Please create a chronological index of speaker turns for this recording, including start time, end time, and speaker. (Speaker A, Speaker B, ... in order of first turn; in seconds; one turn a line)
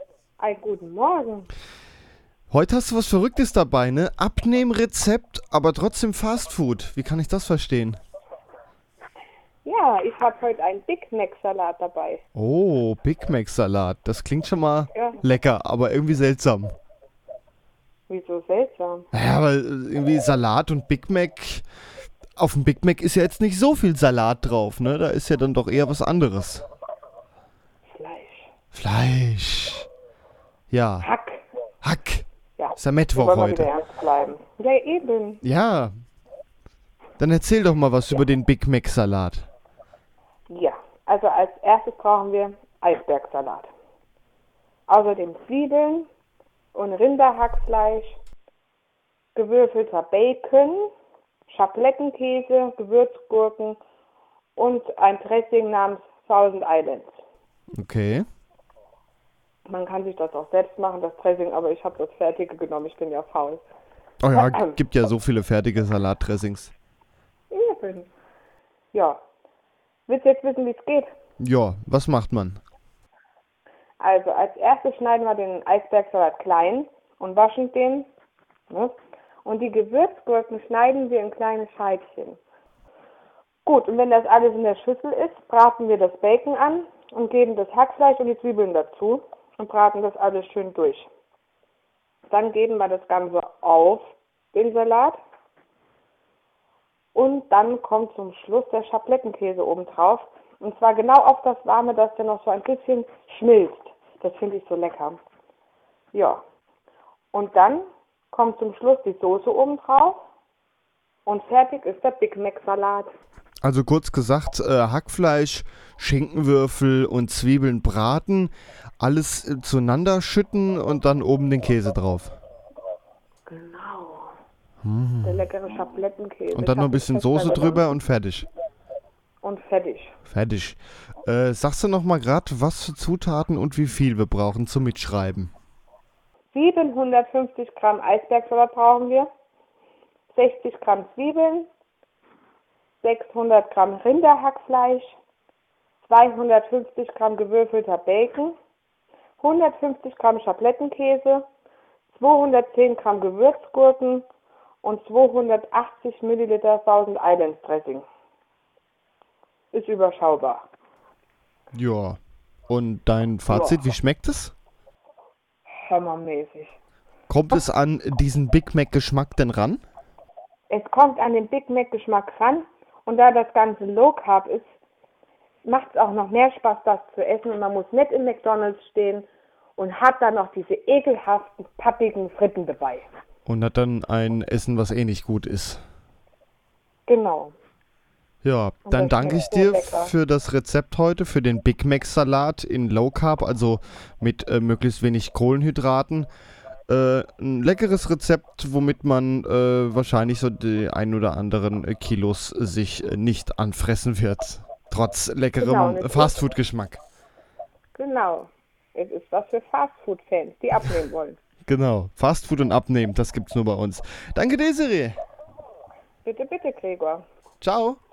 Speaker A: 0.4-1.5
Speaker B: 2.5-8.0
Speaker A: 9.7-12.2
Speaker B: 12.3-16.7
Speaker A: 14.9-15.2
Speaker A: 18.1-19.1
Speaker B: 19.1-21.6
Speaker B: 22.4-26.6
Speaker A: 27.9-28.5
Speaker B: 28.7-29.9
Speaker B: 30.7-31.1
Speaker A: 31.0-31.4
Speaker B: 31.8-32.2
Speaker A: 32.6-35.4
Speaker B: 32.8-33.7
Speaker B: 35.4-35.9
Speaker B: 37.2-39.5
Speaker A: 40.5-43.7
Speaker A: 44.9-46.1
Speaker A: 46.7-48.2
Speaker A: 49.4-50.9
Speaker A: 51.5-53.8
Speaker A: 54.6-57.1
Speaker B: 57.8-58.3
Speaker A: 59.7-63.6
Speaker B: 64.2-66.7
Speaker A: 64.3-64.8
Speaker A: 67.5-68.1
Speaker A: 68.9-69.2
Speaker A: 70.1-71.1
Speaker B: 71.4-72.6
Speaker A: 74.0-78.1
Speaker A: 78.7-82.4
Speaker A: 83.7-91.1
Speaker A: 92.3-95.2
Speaker A: 97.1-105.2
Speaker A: 106.1-106.4
Speaker A: 107.3-110.2
Speaker A: 111.3-113.1
Speaker B: 113.6-122.4
Speaker A: 123.5-124.3
Speaker B: 124.8-125.5
Speaker A: 125.2-127.9
Speaker B: 126.5-128.5
Speaker A: 129.4-130.2
Speaker B: 130.3-135.5
Speaker A: 136.5-139.3
Speaker A: 140.3-141.7
Speaker A: 143.0-145.2
Speaker A: 146.0-148.6
Speaker A: 149.4-151.5
Speaker A: 152.1-154.3
Speaker A: 154.8-158.1
Speaker A: 159.7-160.7
Speaker B: 161.7-162.2
Speaker B: 162.7-164.5
Speaker A: 163.5-163.8
Speaker A: 165.8-166.8
Speaker B: 167.3-169.8
Speaker A: 170.7-174.7
Speaker A: 175.7-179.3
Speaker A: 179.8-183.1
Speaker B: 183.5-185.8
Speaker A: 187.1-187.6
Speaker B: 188.4-196.3
Speaker A: 188.9-190.1
Speaker B: 196.9-207.0
Speaker A: 205.6-206.4
Speaker A: 208.0-211.4
Speaker B: 211.7-215.2
Speaker A: 216.2-217.2
Speaker B: 217.6-218.0